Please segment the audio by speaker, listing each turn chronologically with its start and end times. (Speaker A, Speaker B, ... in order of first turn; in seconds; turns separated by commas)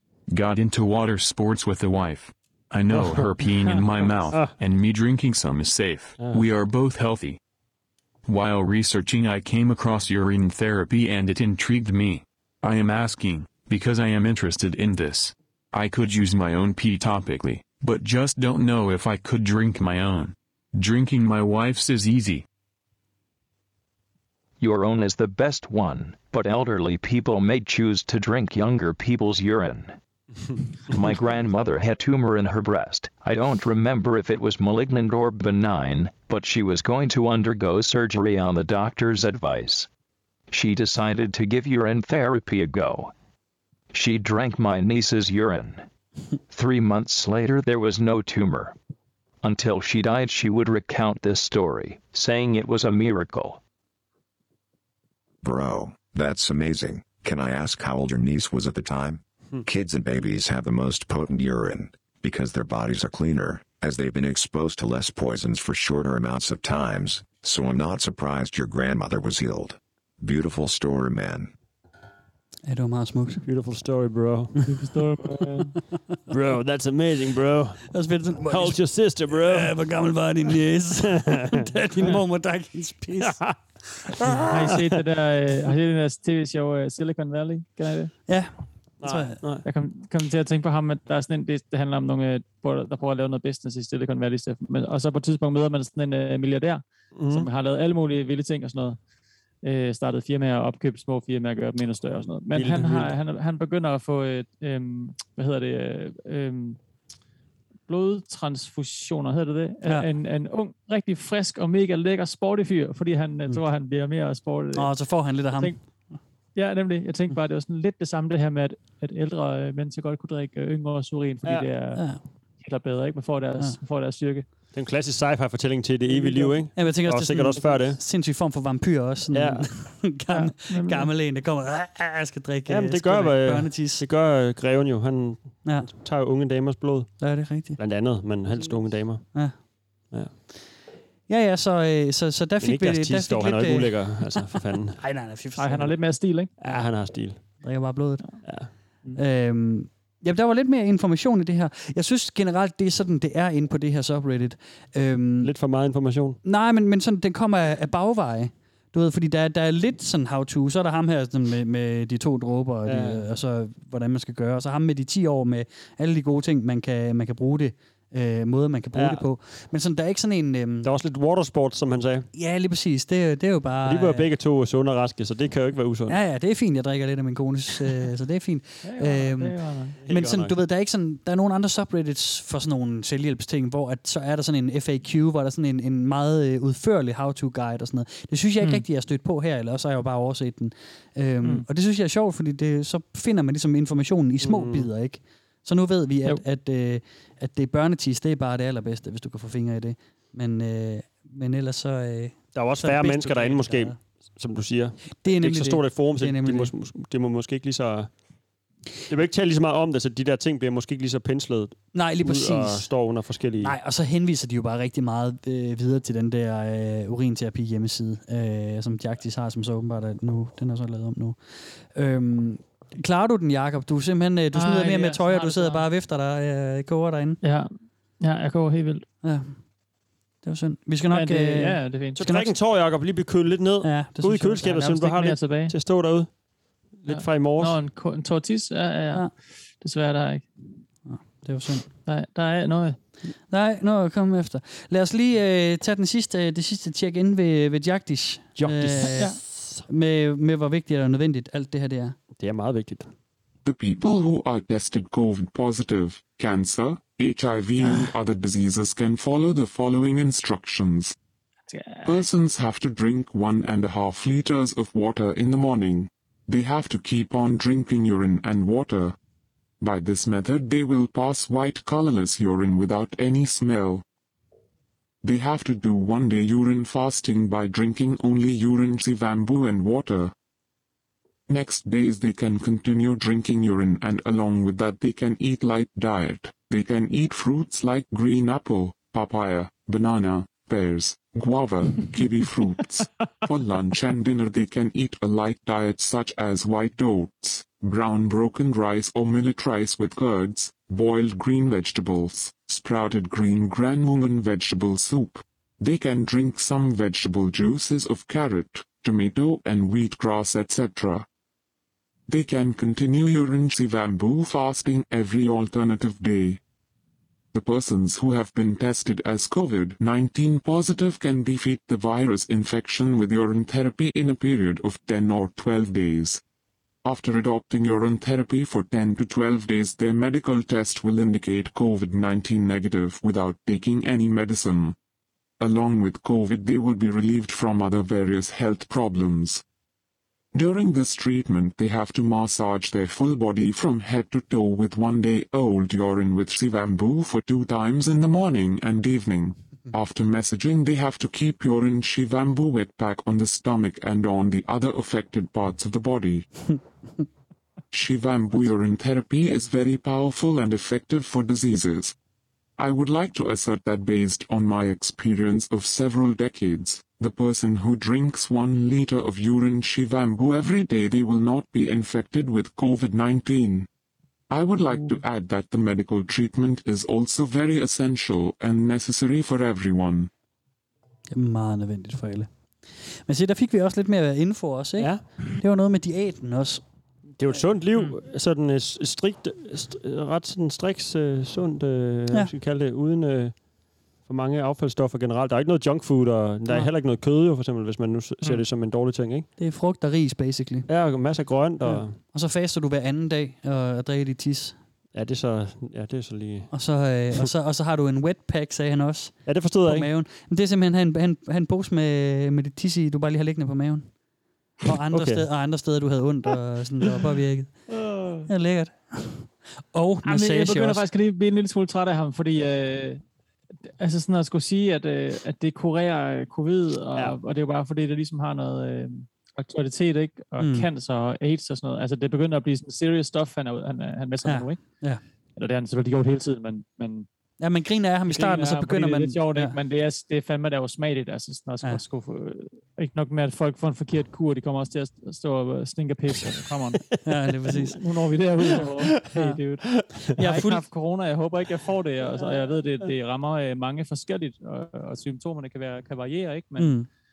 Speaker A: 0.3-7.4, Speaker B: 2.9-4.5, Speaker B: 6.2-6.4, Speaker A: 8.2-22.4, Speaker C: 24.6-29.9, Speaker C: 30.9-39.9, Speaker C: 40.5-43.1, Speaker C: 43.9-45.9, Speaker C: 46.5-48.7, Speaker C: 49.4-53.6, Speaker D: 55.4-71.5, Speaker E: 72.7-73.4, Speaker B: 73.4-74.7, Speaker F: 74.7-75.7, Speaker B: 76.3-77.9, Speaker E: 77.9-83.4, Speaker B: 78.5-79.7, Speaker B: 81.0-82.1, Speaker B: 83.2-83.6, Speaker B: 84.2-84.8, Speaker F: 84.5-88.1, Speaker E: 88.3-88.5, Speaker B: 89.0-89.6, Speaker E: 89.0-89.4, Speaker F: 89.6-99.0, Speaker B: 97.1-97.5, Speaker F: 99.6-106.8, Speaker B: 102.5-103.1, Speaker F: 107.9-114.9, Speaker E: 114.7-115.7, Speaker F: 116.5-122.0, Speaker F: 122.6-124.5, Speaker B: 124.7-128.0, Speaker F: 126.1-126.6, Speaker E: 126.7-134.0, Speaker B: 129.3-129.7, Speaker F: 130.3-131.1, Speaker B: 132.7-137.1, Speaker E: 135.6-135.9, Speaker E: 137.2-137.8, Speaker B: 137.8-139.4, Speaker E: 141.3-145.9, Speaker B: 142.6-145.0, Speaker F: 145.6-146.5, Speaker B: 146.6-147.4, Speaker E: 147.6-148.3, Speaker B: 148.4-148.7, Speaker E: 149.2-155.5, Speaker B: 155.4-156.4, Speaker E: 156.4-170.9, Speaker B: 162.8-163.2, Speaker B: 168.9-169.2, Speaker B: 170.8-172.3, Speaker E: 172.3-174.3, Speaker B: 173.8-176.2, Speaker E: 176.1-204.0, Speaker F: 178.8-180.0, Speaker B: 180.0-180.6, Speaker B: 194.4-194.9, Speaker B: 202.5-208.1, Speaker E: 205.2-206.7, Speaker B: 209.1-213.8, Speaker E: 211.9-212.9, Speaker E: 213.6-221.4, Speaker E: 221.9-227.4, Speaker F: 224.5-225.9, Speaker F: 227.4-229.1, Speaker E: 229.2-229.5, Speaker E: 230.4-232.5, Speaker F: 231.1-232.2, Speaker B: 232.1-236.3, Speaker E: 233.8-234.9, Speaker F: 234.8-235.7, Speaker B: 237.0-237.8, Speaker F: 237.1-240.5, Speaker E: 241.1-241.8, Speaker F: 242.1-243.0, Speaker E: 243.5-252.2, Speaker B: 248.6-249.8, Speaker B: 252.4-253.1, Speaker G: 253.6-261.1, Speaker F: 261.7-262.2, Speaker G: 262.0-269.1, Speaker G: 269.8-274.0, Speaker G: 275.2-280.3, Speaker G: 281.5-311.2, Speaker G: 312.3-316.6, Speaker G: 317.5-326.4, Speaker G: 327.0-334.9, Speaker G: 335.6-339.6, Speaker G: 340.5-356.7, Speaker G: 357.9-362.1, Speaker G: 362.8-373.9, Speaker G: 374.5-380.3, Speaker F: 374.9-375.1, Speaker E: 381.3-382.5, Speaker E: 383.3-386.8, Speaker B: 385.0-385.2, Speaker B: 387.4-393.6, Speaker B: 394.2-399.5, Speaker E: 399.6-400.9, Speaker B: 400.9-402.2, Speaker E: 401.8-404.8, Speaker B: 405.1-406.7, Speaker E: 406.7-414.1, Speaker B: 409.4-410.1, Speaker E: 414.8-417.9, Speaker B: 415.1-415.5, Speaker F: 417.9-418.4, Speaker E: 418.5-421.0, Speaker F: 420.2-423.2, Speaker F: 424.0-434.8, Speaker E: 430.6-430.9, Speaker E: 434.4-435.2, Speaker F: 435.6-437.3, Speaker E: 437.6-439.7, Speaker F: 438.3-447.1, Speaker E: 447.2-448.0, Speaker F: 447.9-456.9, Speaker B: 449.9-450.2, Speaker E: 450.4-450.8, Speaker E: 456.8-457.1